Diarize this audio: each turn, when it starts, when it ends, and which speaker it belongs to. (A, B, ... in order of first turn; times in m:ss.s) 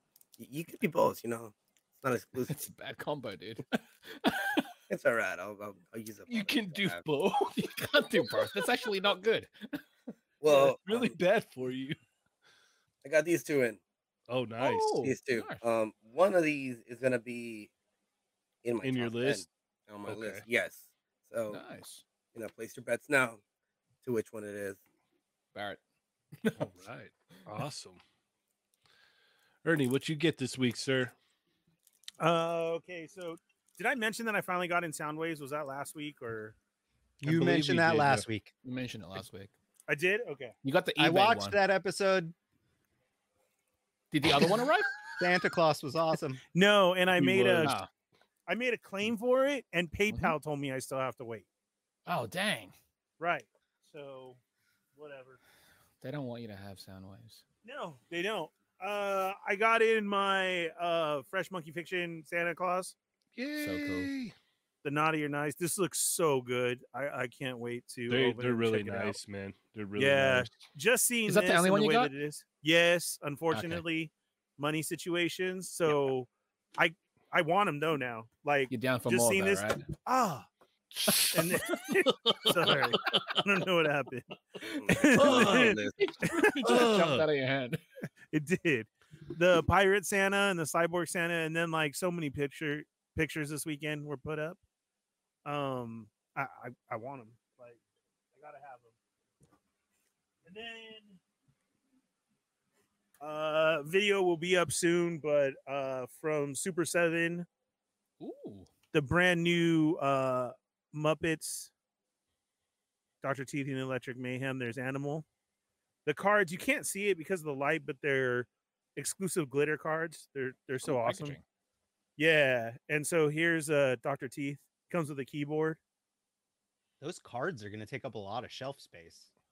0:00.4-0:02.7 A
0:02.5-0:04.6 B
0:04.9-0:07.0 A
0:06.3-0:07.6 C
0:07.6-0:09.8 B
0:10.4-0:11.2 A
0:10.4-0:12.0 C
0:13.0-0:13.8 A
0:14.3-0:15.0 C
0:14.6-0:15.6 B
0:15.0-0:17.7 A
0:18.6-0:21.6 A
0:18.8-0:19.4 C
0:20.1-0:20.4 C
0:21.5-0:22.0 B
0:22.3-0:23.4 A
0:24.0-0:24.8 A
0:25.5-0:25.8 B
0:26.4-0:26.7 B
0:26.6-0:28.0 C
0:29.6-0:31.1 C
0:32.2-0:36.6 D
0:37.2-0:38.5 E
0:37.2-0:38.2 C
0:38.6-0:39.5 B
0:39.9-0:40.6 D
0:40.6-0:41.6 B
0:41.0-0:42.3 E
0:44.1-0:44.9 B
0:45.2-0:46.4 E
0:46.5-0:47.8 D
0:47.2-0:47.7 C
0:47.6-0:47.9 B
0:48.5-0:51.5 D
0:50.1-0:50.4 B
0:52.1-0:52.8 B
0:53.2-0:54.4 D
0:55.0-0:55.4 D
0:56.0-0:57.4 B
0:57.6-1:03.0 D
1:03.4-1:04.3 C
1:03.6-1:04.1 B
1:04.8-1:09.2 D
1:08.1-1:10.6 C
1:10.0-1:20.5 D
1:11.3-1:12.1 B
1:13.5-1:13.8 B
1:18.7-1:19.8 B
1:20.9-1:23.4 C
1:21.3-1:24.3 D
1:24.8-1:26.0 A
1:24.9-1:26.5 D
1:25.1-1:25.8 C
1:26.0-1:27.8 B
1:26.6-1:27.3 C
1:28.3-1:34.6 D
1:35.4-1:37.8 D
1:38.3-1:38.9 D
1:40.4-1:41.2 D
1:43.2-1:47.5 D
1:48.2-1:48.7 B
1:48.9-1:51.7 D
1:53.2-1:55.3 D
1:56.1-2:01.4 D
2:00.8-2:01.4 B
2:02.2-2:05.8 D
2:07.0-2:09.3 E